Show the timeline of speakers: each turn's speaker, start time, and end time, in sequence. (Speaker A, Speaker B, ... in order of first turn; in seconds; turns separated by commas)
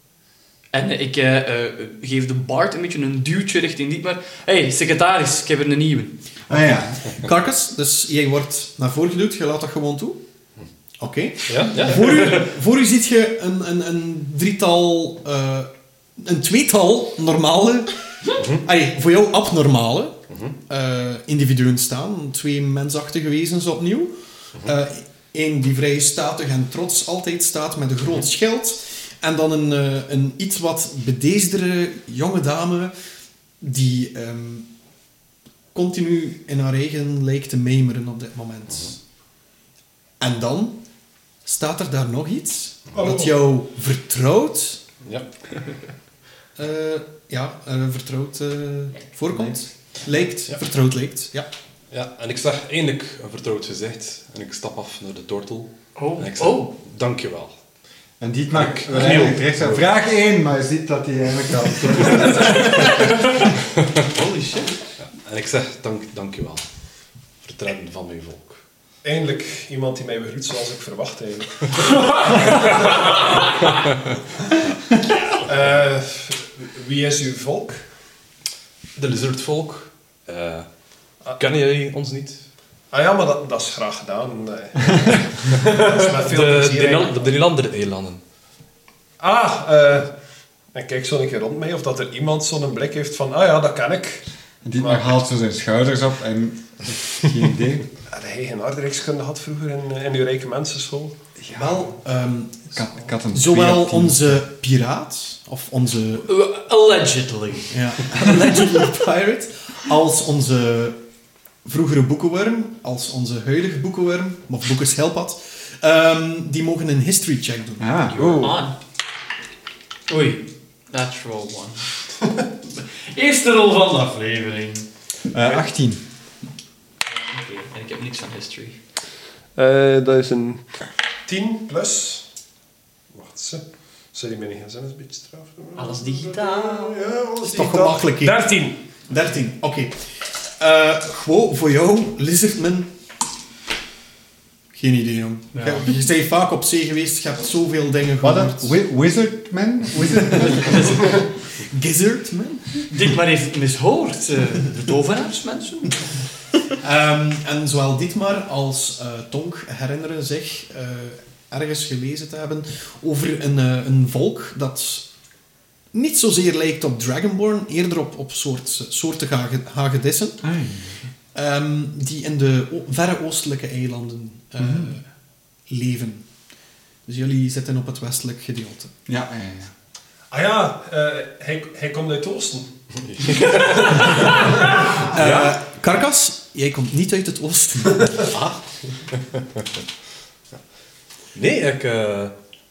Speaker A: 0.7-6.2, Speaker B: 6.5-7.0, Speaker C: 6.5-10.2, Speaker C: 11.0-32.9, Speaker D: 11.5-12.5, Speaker D: 18.4-18.6, Speaker D: 20.3-20.6, Speaker C: 33.6-34.7, Speaker C: 35.7-39.0, Speaker C: 40.2-40.8, Speaker C: 41.4-44.8, Speaker E: 42.9-43.3, Speaker D: 45.0-45.7, Speaker C: 46.6-51.5, Speaker D: 51.9-57.5, Speaker A: 56.0-56.7, Speaker B: 58.2-62.9, Speaker D: 58.5-59.8, Speaker A: 64.1-64.8, Speaker D: 65.1-66.6, Speaker D: 67.4-68.6, Speaker E: 69.0-73.7, Speaker E: 75.3-77.8, Speaker D: 79.0-80.7, Speaker D: 81.2-82.4, Speaker E: 82.9-87.2, Speaker D: 85.6-88.2, Speaker E: 89.2-90.1, Speaker E: 90.7-94.3, Speaker B: 94.6-97.9, Speaker E: 94.8-95.1, Speaker E: 98.1-101.1, Speaker B: 101.4-101.9, Speaker C: 101.5-102.8, Speaker B: 102.7-104.4, Speaker C: 103.3-106.3, Speaker A: 106.2-107.7, Speaker C: 107.7-111.0, Speaker C: 111.6-118.0, Speaker B: 117.8-118.5, Speaker E: 118.1-118.6, Speaker A: 118.2-118.8, Speaker A: 120.1-121.9, Speaker A: 122.7-124.9, Speaker B: 125.3-126.0, Speaker A: 127.3-128.8, Speaker E: 129.5-132.2, Speaker E: 133.1-138.9, Speaker A: 135.8-137.2, Speaker C: 137.4-138.5, Speaker C: 139.0-140.0, Speaker C: 140.6-142.9, Speaker C: 144.7-148.8, Speaker A: 145.5-145.9, Speaker B: 148.2-151.0, Speaker C: 150.0-152.9, Speaker A: 152.9-156.0, Speaker C: 156.8-165.1, Speaker C: 165.9-170.4, Speaker B: 170.4-171.0, Speaker C: 171.3-175.1, Speaker B: 174.6-174.9, Speaker C: 175.7-176.2, Speaker C: 177.1-178.9, Speaker B: 179.1-179.7, Speaker E: 180.3-184.9, Speaker D: 183.0-184.1, Speaker C: 184.9-188.3, Speaker D: 185.2-185.5, Speaker D: 188.3-188.6, Speaker D: 191.3-192.3